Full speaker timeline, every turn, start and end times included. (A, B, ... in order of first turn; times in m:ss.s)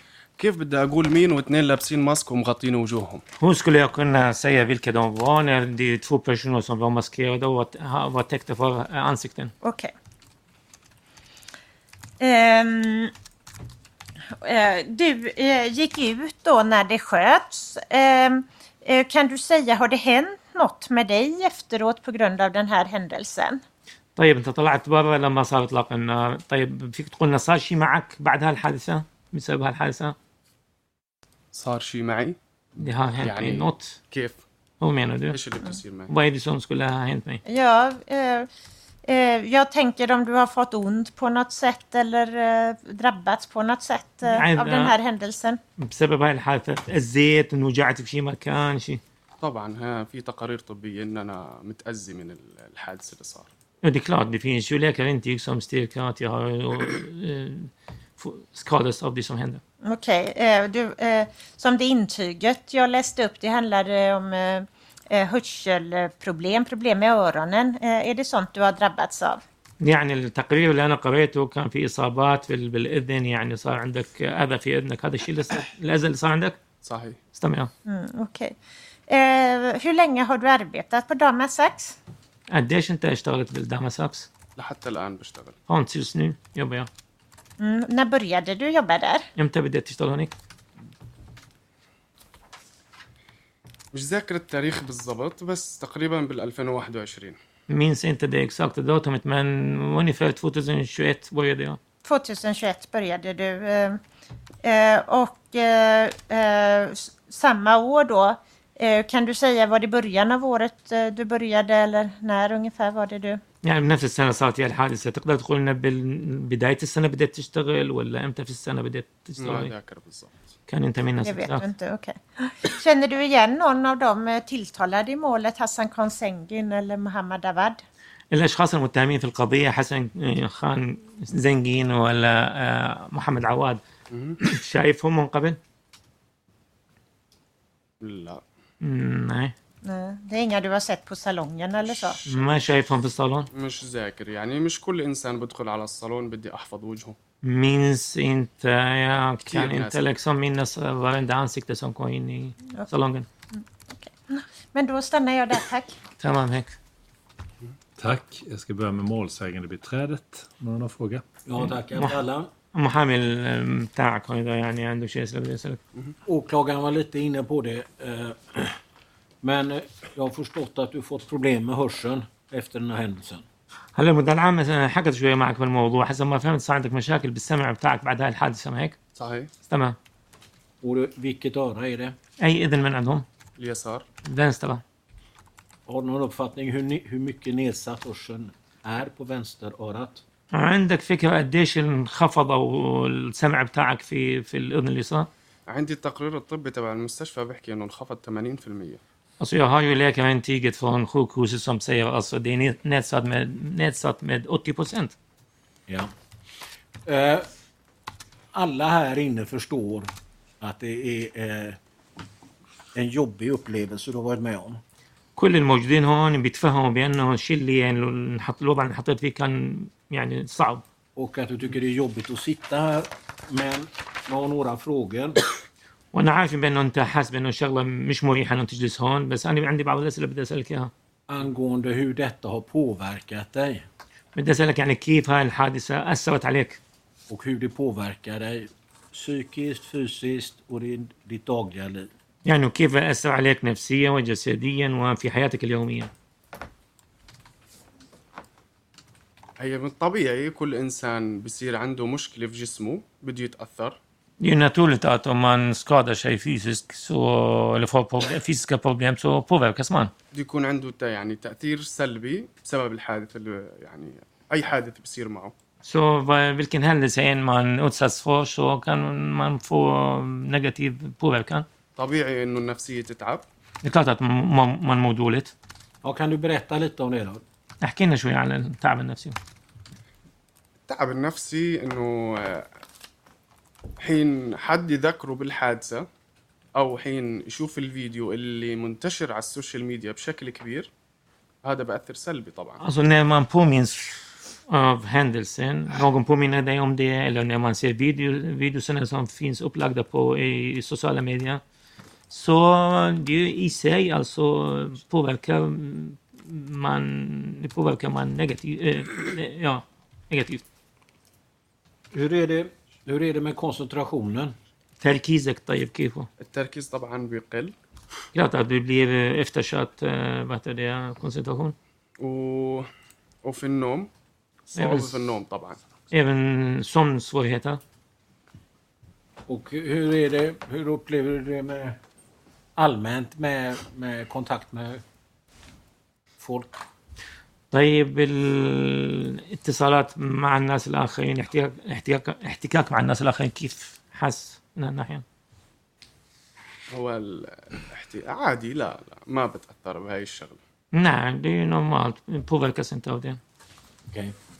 0:00.4-0:03.2 A
0:03.4-0:09.5 B
0:09.6-0:09.9 C
0:12.2-0:13.1 C
0:14.4-0:23.6 C
0:24.2-0:30.1 B
0:31.5-0:32.4 A
0:32.8-0:34.0 B
0:33.1-0:34.4 A
0:34.8-0:35.4 B
0:35.3-0:36.1 A
0:36.1-0:37.4 B
0:37.4-0:38.5 C
0:39.0-0:45.6 C
0:44.2-0:44.9 B
0:45.8-0:49.0 B
0:49.4-0:53.5 A
0:53.8-0:59.6 B
0:59.8-1:09.4 C
1:09.8-1:16.6 B
1:16.8-1:17.2 A
1:17.3-1:17.7 B
1:17.8-1:18.6 C
1:19.1-1:22.0 C
1:22.5-1:24.3 B
1:24.6-1:25.6 A
1:25.7-1:26.9 B
1:27.6-1:29.2 C
1:29.4-1:30.3 B
1:33.9-1:37.4 A
1:37.7-1:41.8 B
1:42.0-1:44.0 C
1:44.6-1:53.4 C
1:53.6-1:59.7 B
1:59.4-2:00.3 A
2:00.7-2:01.6 B
2:01.2-2:07.8 C
2:08.3-2:13.8 B
2:14.1-2:14.4 A
2:14.4-2:15.6 B
2:18.0-2:18.4 A
2:18.8-2:19.5 B
2:19.8-2:22.2 C
2:22.2-2:23.5 B
2:23.5-2:27.2 A
2:27.4-2:33.3 B
2:29.5-2:30.0 A
2:33.5-2:35.9 C
2:36.2-2:36.7 B
2:38.0-2:41.2 D
2:41.4-2:42.5 E
2:41.6-2:42.2 B
2:42.7-2:45.8 B
2:46.2-2:48.8 E
2:49.4-2:53.4 E
2:53.9-2:59.0 B
2:59.2-2:59.5 A
2:59.6-3:00.0 B
3:00.8-3:02.2 E
3:02.4-3:03.2 B
3:03.6-3:04.0 A
3:04.2-3:04.8 B
3:05.9-3:10.2 E
3:10.5-3:15.3 B
3:15.7-3:19.0 A
3:19.4-3:25.1 B
3:27.0-3:27.5 E
3:28.5-3:31.8 E
3:32.9-3:34.8 E
3:35.4-3:40.8 B
3:41.2-3:45.4 E
3:46.1-3:50.9 B
3:51.3-3:53.8 E
3:54.3-3:56.8 B
3:57.3-4:02.1 E
4:02.4-4:06.1 B
4:09.6-4:14.0 A
4:14.4-4:20.1 B
4:20.3-4:25.5 A
4:25.8-4:31.6 B
4:32.0-4:33.4 A
4:33.8-4:35.5 B
4:36.0-4:37.4 E
4:37.8-4:39.4 B
4:40.9-4:42.7 A
4:44.0-4:46.0 A
4:46.8-4:50.9 A
4:51.6-4:52.8 A
4:52.8-5:01.6 B
5:02.3-5:10.6 B
5:12.1-5:14.5 E
5:15.0-5:16.3 B
5:16.4-5:17.7 A
5:18.3-5:21.7 B
5:22.2-5:22.8 A
5:23.4-5:24.1 A
5:24.7-5:25.8 A
5:24.7-5:25.2 B
5:26.1-5:27.8 B
5:29.5-5:32.0 E
5:32.8-5:35.0 E
5:36.4-5:36.8 E
5:37.7-5:45.2 B
5:46.9-5:50.6 A
5:50.9-5:53.4 B
5:54.1-5:54.3 E